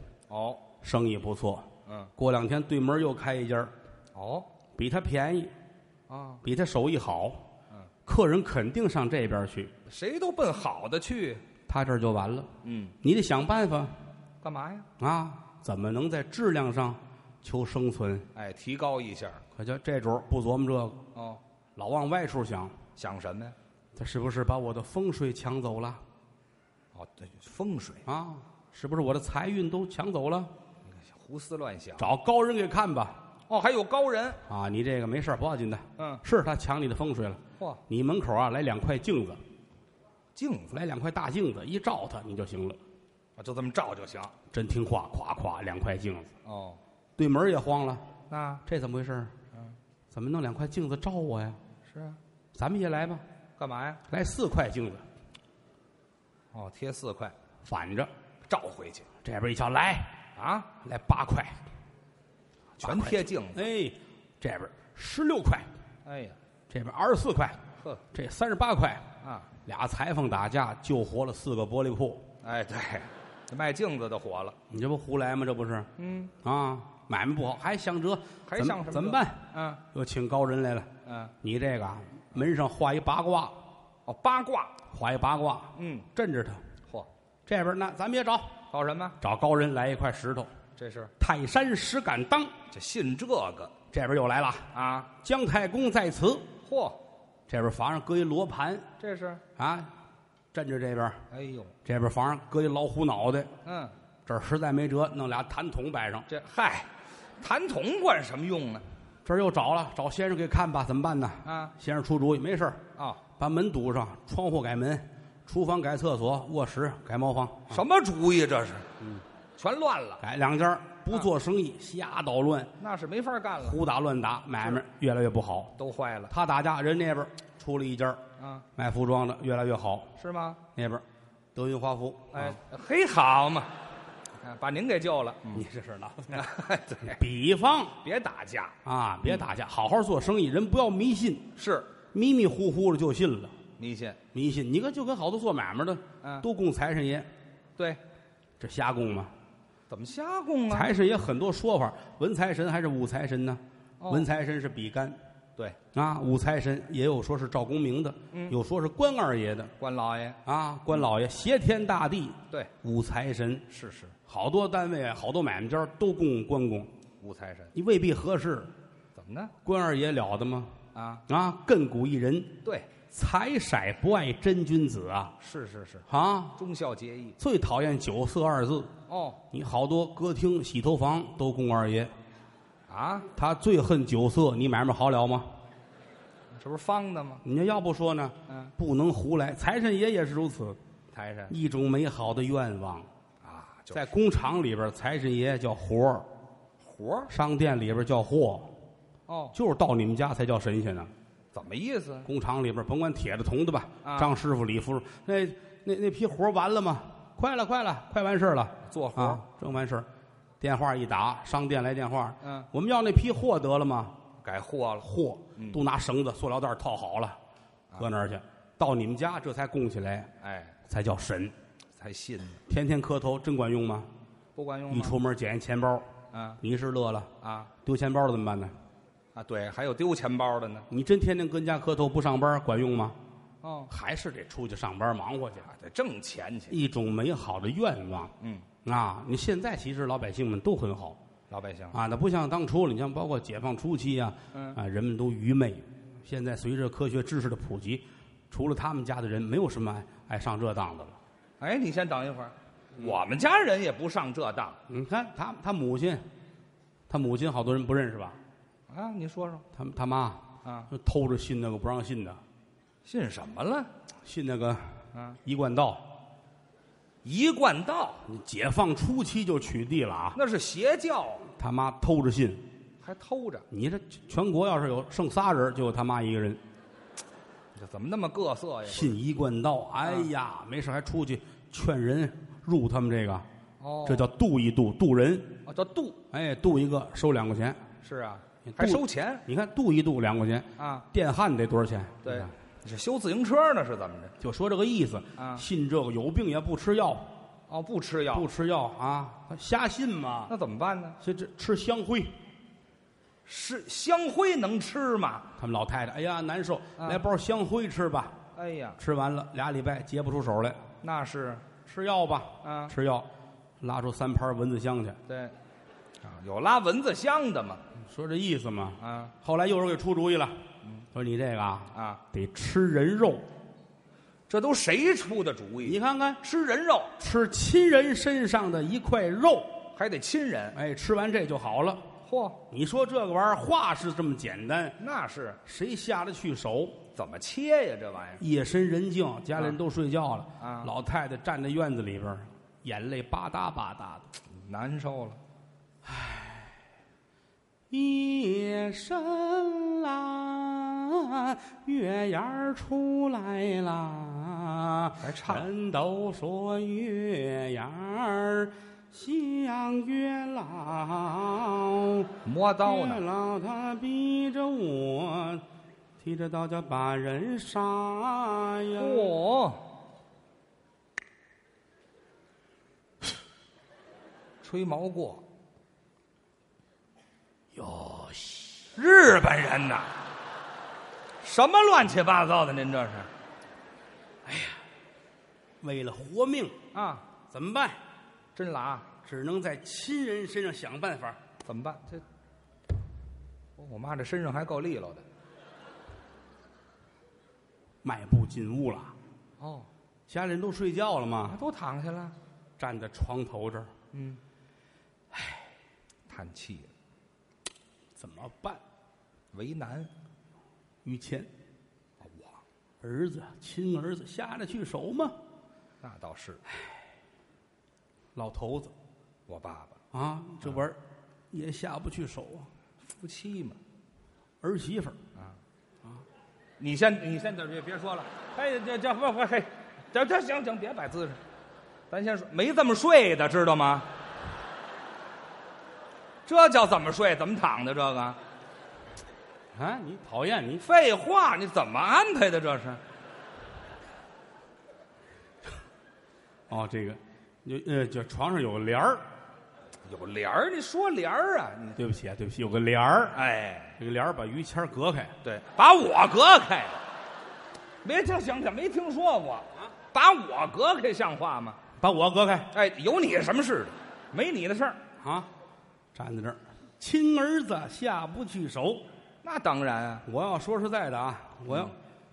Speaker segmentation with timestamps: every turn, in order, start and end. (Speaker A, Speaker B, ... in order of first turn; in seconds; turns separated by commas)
Speaker A: 0.3-0.6, Speaker B: 0.8-3.7, Speaker A: 1.9-2.1, Speaker A: 4.1-4.5, Speaker B: 4.8-5.5, Speaker A: 6.1-6.4, Speaker B: 6.4-7.4, Speaker B: 8.1-9.7, Speaker A: 9.8-11.4, Speaker B: 11.7-12.5, Speaker A: 12.6-12.9, Speaker B: 13.0-13.9, Speaker A: 14.4-14.9, Speaker B: 15.0-18.3, Speaker A: 18.3-19.4, Speaker B: 19.5-21.0, Speaker A: 21.1-21.4, Speaker B: 21.8-22.8, Speaker A: 22.9-23.5, Speaker B: 23.9-26.0, Speaker A: 26.9-28.0, Speaker B: 28.1-30.5, Speaker A: 30.9-32.1, Speaker B: 32.0-33.2, Speaker A: 33.5-34.4, Speaker B: 34.5-39.4, Speaker A: 36.0-36.2, Speaker A: 40.4-40.8, Speaker B: 40.7-42.8, Speaker A: 43.4-44.3, Speaker B: 44.5-46.3, Speaker A: 46.4-46.8, Speaker B: 47.2-48.0, Speaker A: 48.3-48.6, Speaker B: 48.6-49.3, Speaker B: 50.1-51.6, Speaker A: 51.9-52.2, Speaker B: 52.5-53.2, Speaker A: 53.6-54.0, Speaker B: 54.1-55.0, Speaker A: 56.5-57.3, Speaker B: 57.6-58.1, Speaker A: 58.5-59.1, Speaker B: 59.2-60.1, Speaker A: 60.4-60.7, Speaker B: 60.8-61.6, Speaker B: 62.8-65.7, Speaker A: 62.8-63.6, Speaker A: 66.0-66.4, Speaker B: 66.7-67.6, Speaker B: 68.1-69.0, Speaker A: 69.2-69.5, Speaker B: 69.7-72.2, Speaker A: 72.4-74.5, Speaker B: 74.7-80.9, Speaker A: 76.0-76.3, Speaker A: 78.5-79.8, Speaker A: 81.0-81.3, Speaker B: 81.4-83.6, Speaker A: 84.0-84.7, Speaker B: 84.9-86.6, Speaker A: 85.7-86.1, Speaker B: 87.5-88.5, Speaker A: 88.7-89.2, Speaker B: 89.2-90.5, Speaker A: 90.8-91.1, Speaker B: 91.2-92.5, Speaker A: 92.7-93.7, Speaker B: 93.9-96.5, Speaker A: 94.7-95.1, Speaker A: 96.6-97.0, Speaker B: 97.5-98.8, Speaker A: 99.0-99.4, Speaker B: 99.6-99.9, Speaker B: 100.5-101.2, Speaker A: 101.3-101.7, Speaker B: 101.8-103.5, Speaker A: 103.6-103.9, Speaker B: 104.2-106.3, Speaker A: 106.3-106.9, Speaker A: 107.4-108.8, Speaker B: 109.2-112.8, Speaker A: 111.4-111.7, Speaker A: 113.0-113.2, Speaker B: 113.4-117.8, Speaker A: 117.7-118.9, Speaker A: 119.6-120.2, Speaker B: 120.2-122.7, Speaker A: 122.8-123.8, Speaker B: 123.6-125.7, Speaker A: 125.8-126.3, Speaker B: 126.3-128.2, Speaker A: 128.4-128.6, Speaker B: 128.8-130.1, Speaker A: 130.2-130.6, Speaker B: 130.7-131.0, Speaker B: 131.5-132.6, Speaker A: 132.3-133.7, Speaker A: 134.4-135.6, Speaker B: 135.5-136.5, Speaker A: 136.3-137.2, Speaker B: 137.1-137.9, Speaker A: 138.0-139.4, Speaker B: 138.8-141.5, Speaker A: 141.6-141.9, Speaker B: 142.1-143.5, Speaker A: 143.8-144.2, Speaker B: 144.3-147.3, Speaker A: 146.2-146.5, Speaker B: 148.6-149.3, Speaker A: 149.9-150.9, Speaker B: 150.7-155.2, Speaker A: 154.0-154.3, Speaker B: 155.9-159.7, Speaker A: 159.8-160.4, Speaker B: 160.4-163.6, Speaker A: 163.7-164.1, Speaker B: 164.3-166.9, Speaker A: 167.2-167.7, Speaker B: 167.7-168.7, Speaker A: 169.2-169.5, Speaker B: 169.6-175.3, Speaker A: 170.9-171.2, Speaker A: 172.6-172.9, Speaker A: 175.4-177.3, Speaker B: 176.1-176.6, Speaker B: 177.4-178.9, Speaker A: 179.1-179.4, Speaker B: 179.5-182.1, Speaker A: 182.9-183.3, Speaker B: 183.3-185.5, Speaker A: 186.5-187.4, Speaker B: 187.4-190.8, Speaker A: 191.1-191.5, Speaker B: 191.5-193.1, Speaker A: 193.4-194.1, Speaker B: 193.9-196.3, Speaker A: 196.8-197.3, Speaker B: 197.3-198.7, Speaker A: 199.3-199.5, Speaker B: 199.5-201.1, Speaker A: 201.5-202.3, Speaker B: 202.2-210.1, Speaker A: 204.0-204.3, Speaker A: 208.9-209.4, Speaker B: 210.6-214.2, Speaker A: 212.4-212.7, Speaker A: 214.4-215.8, Speaker B: 215.0-217.4, Speaker B: 218.0-220.3, Speaker A: 220.4-220.8, Speaker B: 220.9-221.5, Speaker A: 222.0-222.6, Speaker B: 222.7-224.1, Speaker A: 224.5-225.1, Speaker B: 224.9-226.1, Speaker A: 226.3-226.6, Speaker B: 226.6-227.3, Speaker A: 227.4-227.7, Speaker B: 227.8-228.7, Speaker A: 229.3-230.9, Speaker B: 230.9-233.2, Speaker A: 233.6-233.9, Speaker B: 233.9-235.7, Speaker A: 235.6-236.7, Speaker B: 236.7-238.3, Speaker A: 238.4-238.7, Speaker B: 238.8-241.2, Speaker A: 241.5-241.9, Speaker B: 241.9-251.2, Speaker A: 251.6-254.8, Speaker B: 254.9-256.2, Speaker B: 257.1-258.4, Speaker A: 258.9-259.6, Speaker B: 259.7-262.4, Speaker A: 260.6-260.9, Speaker A: 263.0-263.9, Speaker B: 264.2-264.9, Speaker B: 265.4-266.1, Speaker A: 267.2-268.2, Speaker B: 268.2-270.4, Speaker A: 270.3-271.5, Speaker B: 271.6-272.6, Speaker A: 273.0-273.6, Speaker B: 273.7-276.6, Speaker A: 277.7-279.1, Speaker B: 278.9-283.4, Speaker A: 280.0-280.3, Speaker A: 283.8-284.3, Speaker B: 284.0-285.6, Speaker A: 285.6-286.2, Speaker B: 286.3-287.8, Speaker A: 288.0-289.4, Speaker B: 288.7-292.5, Speaker A: 290.8-291.0, Speaker A: 292.2-294.3, Speaker B: 294.4-297.3, Speaker A: 295.4-295.6, Speaker A: 297.7-298.5, Speaker B: 298.3-300.5, Speaker A: 300.5-301.2, Speaker B: 301.2-302.3, Speaker A: 303.4-305.5, Speaker B: 305.6-308.4, Speaker A: 308.5-309.0, Speaker B: 309.0-310.8, Speaker A: 311.0-311.6, Speaker B: 311.9-313.3, Speaker A: 312.6-312.9, Speaker B: 313.8-315.2, Speaker A: 315.3-315.5, Speaker A: 316.2-317.8, Speaker B: 318.1-323.4, Speaker A: 319.0-319.3, Speaker A: 321.9-322.2, Speaker A: 324.5-327.1, Speaker B: 325.9-326.4, Speaker B: 327.2-329.8, Speaker A: 329.9-330.8, Speaker B: 330.7-332.1, Speaker A: 332.2-332.6, Speaker B: 332.7-334.9, Speaker A: 335.0-335.6, Speaker B: 335.6-337.0, Speaker A: 337.1-338.4, Speaker B: 338.4-344.3, Speaker A: 340.6-340.9, Speaker A: 344.5-345.4, Speaker B: 346.0-346.7, Speaker B: 347.9-362.3, Speaker A: 355.2-355.7, Speaker A: 362.4-363.2, Speaker B: 362.8-365.6, Speaker B: 366.2-369.3, Speaker A: 369.0-369.8, Speaker A: 374.6-375.4, Speaker B: 377.7-378.9, Speaker A: 378.9-380.1, Speaker A: 381.4-383.3, Speaker B: 384.4-384.8, Speaker B: 385.8-386.8, Speaker A: 386.9-387.2, Speaker B: 387.5-388.0, Speaker A: 388.5-389.1, Speaker B: 389.2-391.4, Speaker A: 391.6-392.2, Speaker A: 393.8-395.2, Speaker B: 398.0-399.1, Speaker A: 399.6-399.9, Speaker B: 400.3-401.6, Speaker A: 401.4-402.3, Speaker B: 402.8-403.9, Speaker A: 404.1-404.4, Speaker B: 405.3-405.6, Speaker A: 406.3-406.9, Speaker B: 408.1-408.8, Speaker A: 409.5-410.1, Speaker B: 411.0-411.5, Speaker A: 412.2-412.6, Speaker B: 413.0-415.4, Speaker A: 416.0-416.6, Speaker B: 418.3-418.9, Speaker A: 419.5-420.0, Speaker B: 420.1-421.0, Speaker B: 421.5-422.7, Speaker A: 423.1-423.8, Speaker B: 424.6-425.2, Speaker A: 426.8-431.4, Speaker A: 432.1-434.1, Speaker A: 436.5-438.4, Speaker B: 439.7-440.8, Speaker A: 440.8-443.0, Speaker B: 446.7-449.2, Speaker A: 450.1-452.0, Speaker B: 452.0-453.4, Speaker A: 453.3-453.9, Speaker B: 454.0-455.3, Speaker A: 455.4-457.0, Speaker A: 458.0-461.8, Speaker B: 462.0-462.7, Speaker A: 462.7-465.0, Speaker B: 465.2-465.5, Speaker B: 466.1-469.1, Speaker A: 469.4-470.2, Speaker B: 470.2-471.9